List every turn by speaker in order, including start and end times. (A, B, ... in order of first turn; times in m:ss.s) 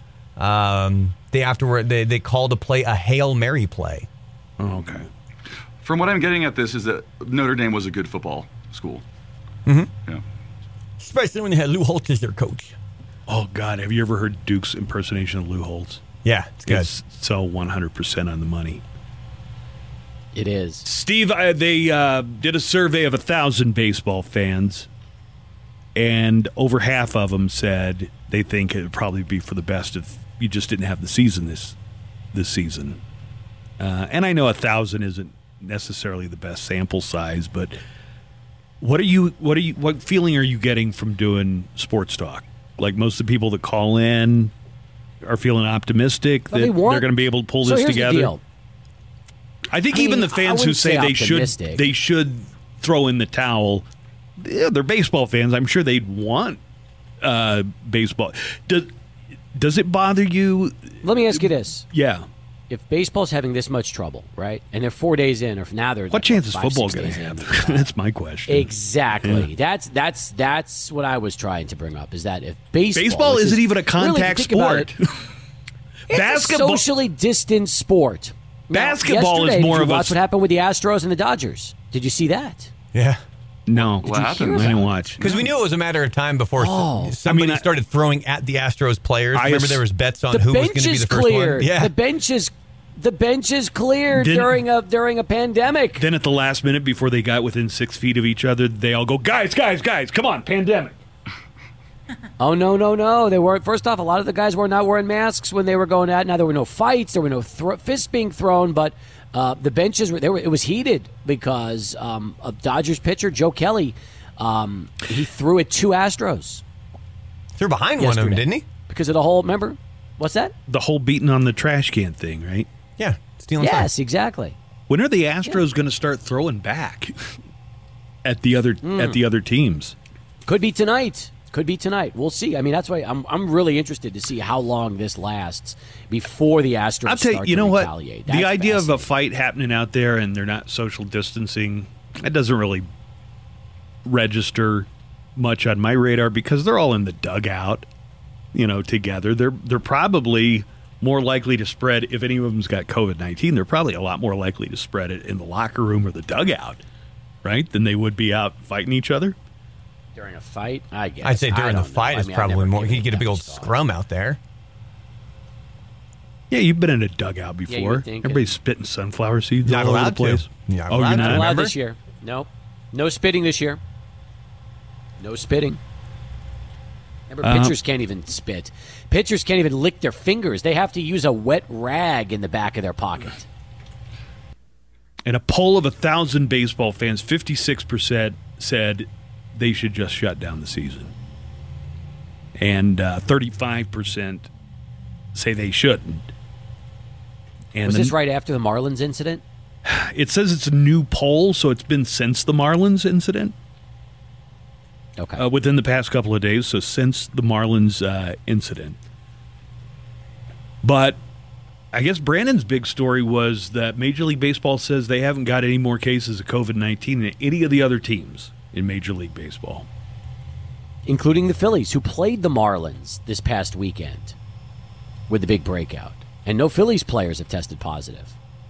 0:00.4-0:04.1 A
0:04.6-0:05.1 B
0:05.8-0:09.0 C
0:09.7-0:09.9 A
0:11.0-0:12.8 A
0:13.3-0:16.0 B
0:16.2-0:16.9 A
0:16.7-0:18.8 B
0:20.3-0:20.8 D
0:20.8-0:24.9 B
0:26.0-0:31.8 B
0:32.3-0:33.0 B
0:33.8-0:37.8 B
0:38.8-0:44.5 B
0:45.2-0:48.4 B
0:46.5-0:48.4 D
0:49.7-0:53.9 B
0:49.9-0:51.9 D
0:54.4-0:56.6 B
0:57.2-0:58.9 B
0:59.5-1:02.3 B
1:01.0-1:01.9 D
1:02.7-1:07.9 D
1:06.1-1:08.7 B
1:08.5-1:14.9 D
1:09.2-1:09.5 B
1:12.9-1:15.0 B
1:16.1-1:16.9 B
1:16.1-1:22.7 D
1:18.7-1:20.2 B
1:22.9-1:23.2 A
1:23.7-1:25.3 B
1:24.0-1:24.8 C
1:24.0-1:25.3 D
1:25.2-1:31.9 A
1:26.6-1:27.2 D
1:27.2-1:27.7 B
1:29.3-1:29.8 B
1:30.3-1:36.1 D
1:34.1-1:34.6 B
1:36.0-1:41.0 B
1:42.4-1:56.6 D
1:57.6-1:58.7 A
1:58.0-2:00.6 D
2:00.7-2:02.7 B
2:03.0-2:03.9 A
2:03.6-2:04.6 D
2:04.9-2:07.3 B
2:08.2-2:10.0 B
2:08.8-2:09.2 D
2:10.5-2:19.1 D
2:17.1-2:22.9 B
2:24.0-2:27.9 B
2:28.5-2:36.8 B
2:37.4-2:39.4 B
2:40.1-2:43.8 D
2:41.2-2:44.4 A
2:46.5-2:51.5 B
2:47.7-2:48.5 D
2:49.6-2:51.8 A
2:51.0-2:53.8 D
2:55.2-2:55.8 D
2:57.3-3:03.4 D
2:57.4-2:57.8 B
3:05.2-3:11.1 B
3:12.6-3:14.5 B
3:15.3-3:16.3 B
3:17.7-3:18.1 B
3:17.8-3:19.4 D
3:19.8-3:23.6 B
3:25.2-3:25.4 D
3:25.4-3:29.0 B
3:30.8-3:31.2 B
3:31.9-3:39.9 B
3:41.1-3:44.4 D
3:45.3-3:48.4 D